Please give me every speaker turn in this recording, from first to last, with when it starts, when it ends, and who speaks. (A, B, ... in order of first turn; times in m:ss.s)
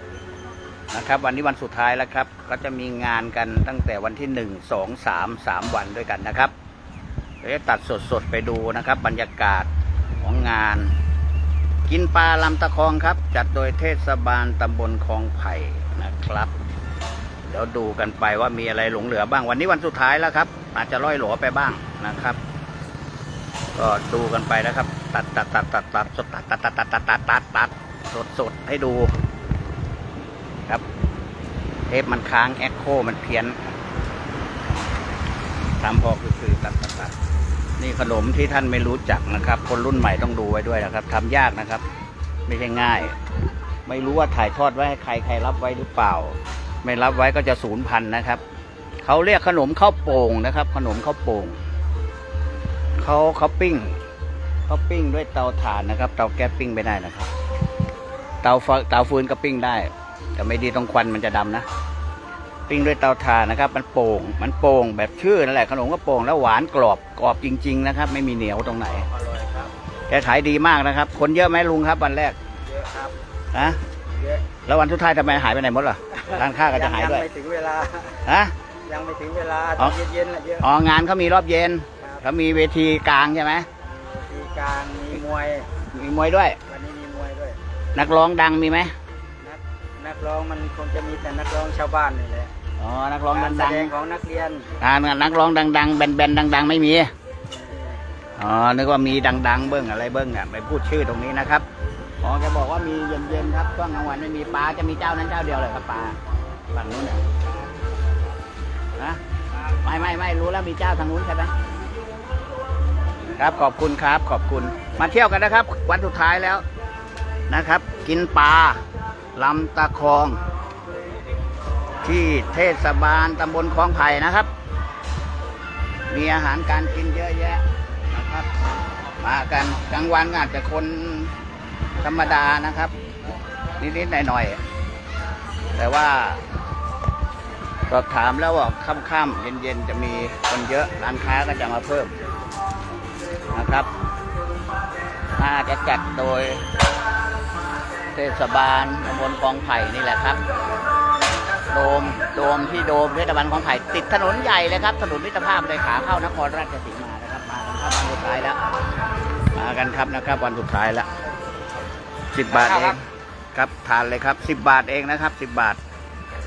0:00.9-0:06.5 A
0:07.4-0:09.7 A
0:10.2-0:10.9 A
0:11.9-0:16.5 A
0:17.5-0:22.4 A
0:23.8-0:29.2 A
0:31.9-0:33.7 A
0:35.8-0:37.2 A
0:37.8-0:41.8 A
0:42.5-0:43.2 A
0:43.9-0:48.4 A
0:49.0-0:51.6 A
0:53.0-0:54.0 A
0:54.7-0:57.3 A
0:58.4-1:01.7 A
1:02.7-1:09.1 A
1:09.1-1:09.7 B
1:10.1-1:12.4 A
1:12.7-1:13.2 B
1:13.5-1:13.8 A
1:14.1-1:14.4 B
1:14.7-1:17.3 A
1:16.8-1:18.2 B
1:18.3-1:18.5 A
1:18.9-1:20.6 B
1:20.6-1:23.7 A
1:24.0-1:25.7 B
1:25.9-1:26.6 A
1:26.7-1:27.6 B
1:28.0-1:28.9 A
1:29.4-1:32.5 B
1:32.8-1:33.9 A
1:33.4-1:34.6 B
1:34.8-1:37.1 A
1:37.5-1:38.0 B
1:38.4-1:41.6 A
1:42.2-1:46.2 A
1:46.7-1:47.2 A
1:49.0-1:49.2 A
1:49.8-1:51.5 A
1:53.4-1:56.6 A
1:57.5-1:58.8 A
1:59.4-2:00.4 A
2:02.0-2:04.5 A
2:06.1-2:08.5 A
2:09.2-2:11.4 A
2:12.0-2:12.9 A
2:13.8-2:14.6 A
2:15.8-2:16.4 A
2:17.9-2:22.2 A
2:23.5-2:23.9 A
2:25.4-2:26.6 A
2:28.1-2:30.4 A
2:31.7-2:38.6 A
2:39.6-2:41.1 A
2:42.3-2:43.0 A
2:43.5-2:45.8 A